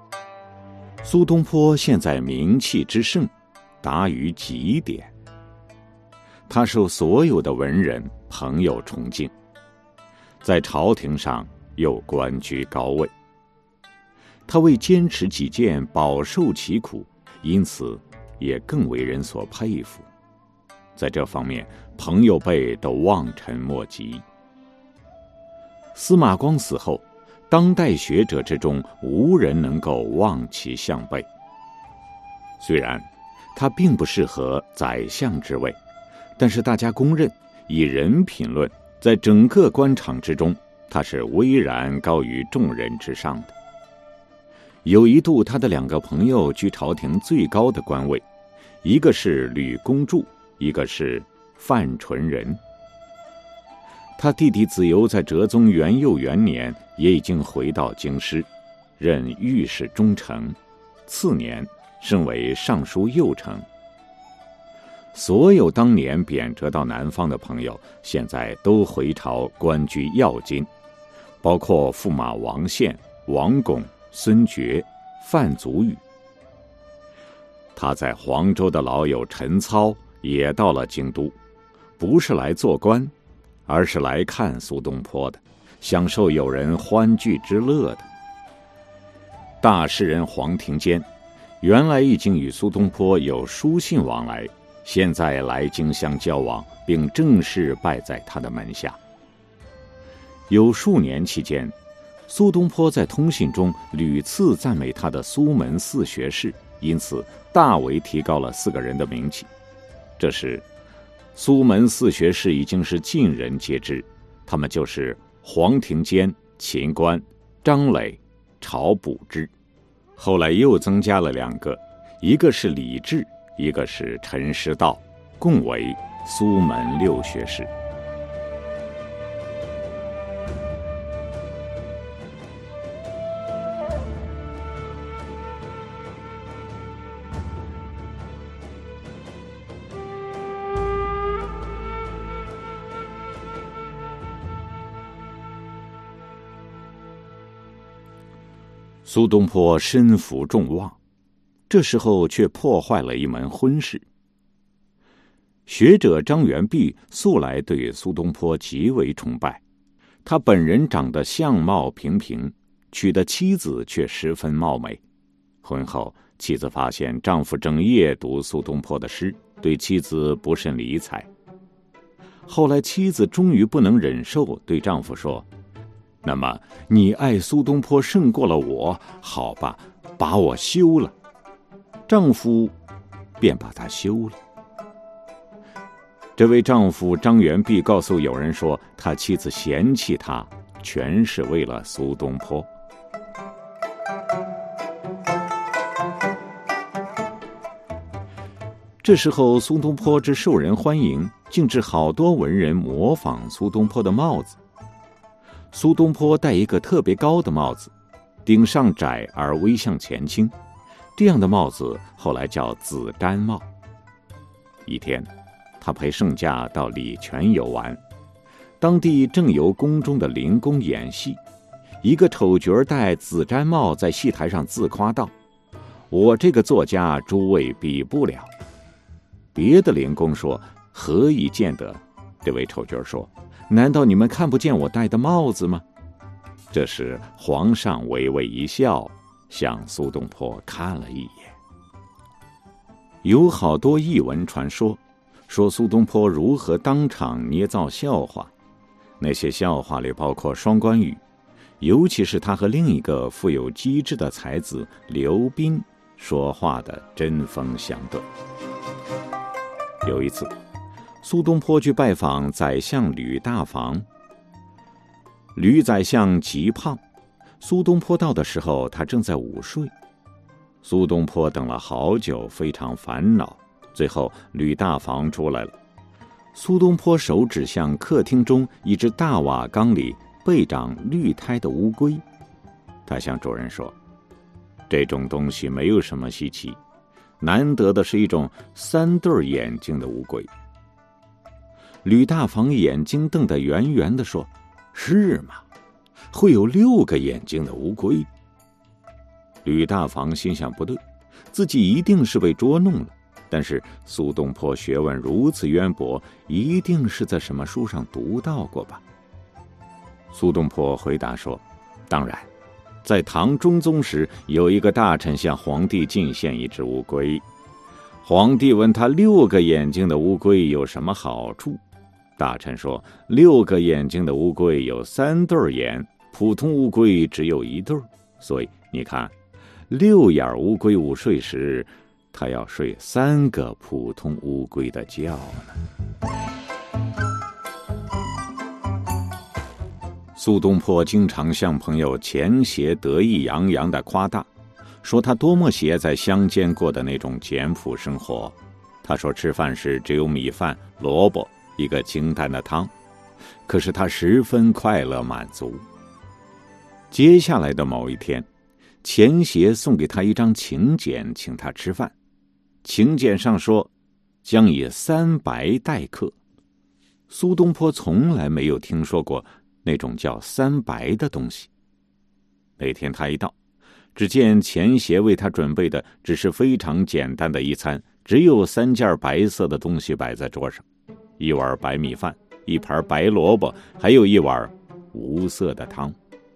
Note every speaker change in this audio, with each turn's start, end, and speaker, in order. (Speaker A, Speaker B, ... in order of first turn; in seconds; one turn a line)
Speaker A: 1.0-3.3
Speaker A: 3.8-5.1
Speaker A: 6.5-9.3
Speaker A: 10.4-13.1
Speaker A: 14.5-20.1
Speaker A: 21.0-24.2
Speaker A: 25.9-31.3
Speaker A: 32.6-35.8
Speaker A: 36.4-43.5
Speaker A: 44.9-48.2
Speaker A: 48.8-52.6
Speaker A: 54.2-58.5
Speaker A: 59.0-63.7
Speaker A: 65.1-70.7
Speaker A: 71.4-76.0
Speaker A: 77.8-81.3
Speaker A: 82.0-83.1
Speaker A: 83.7-88.1
Speaker A: 89.6-91.1
Speaker A: 91.6-99.0
Speaker A: 100.5-101.8
Speaker A: 102.3-109.5
Speaker A: 110.2-110.7
Speaker A: 111.3-119.5
Speaker A: 120.2-127.7
Speaker A: 149.1-151.0
Speaker A: 151.7-154.1
Speaker A: 155.7-159.6
Speaker A: 160.2-165.0
Speaker A: 165.6-171.3
Speaker A: 172.5-175.5
Speaker A: 176.2-181.1
Speaker A: 182.1-182.8
Speaker A: 183.4-184.4
Speaker A: 186.4-192.7
Speaker A: 199.0-204.6
Speaker A: 205.7-207.9
Speaker A: 208.4-210.5
Speaker A: 211.2-213.7
Speaker A: 214.9-218.0
Speaker A: 218.8-221.4
Speaker A: 222.0-225.3
Speaker A: 226.1-228.5
Speaker A: 229.5-235.8
Speaker A: 236.7-241.6
Speaker A: 243.2-248.5
Speaker A: 249.2-251.2
Speaker A: 251.8-258.2
Speaker A: 260.0-260.5
Speaker A: 261.2-264.1
Speaker A: 265.6-267.0
Speaker A: 267.6-269.9
Speaker A: 270.8-275.7
Speaker A: 276.5-282.2
Speaker A: 283.1-284.0
Speaker A: 284.9-286.8
Speaker A: 287.4-290.5
Speaker A: 292.0-295.6
Speaker A: 296.3-298.3
Speaker A: 299.6-301.0
Speaker A: 301.5-309.0
Speaker A: 310.3-312.5
Speaker A: 313.0-317.4
Speaker A: 318.2-321.8
Speaker A: 322.4-329.3
Speaker A: 329.9-335.8
Speaker A: 340.4-344.5
Speaker A: 345.0-352.9
Speaker A: 353.7-355.9
Speaker A: 357.1-358.5
Speaker A: 359.0-362.1
Speaker A: 362.8-363.9
Speaker A: 364.4-366.4
Speaker A: 367.3-371.7
Speaker A: 372.8-373.6
Speaker A: 374.1-380.9
Speaker A: 381.4-386.2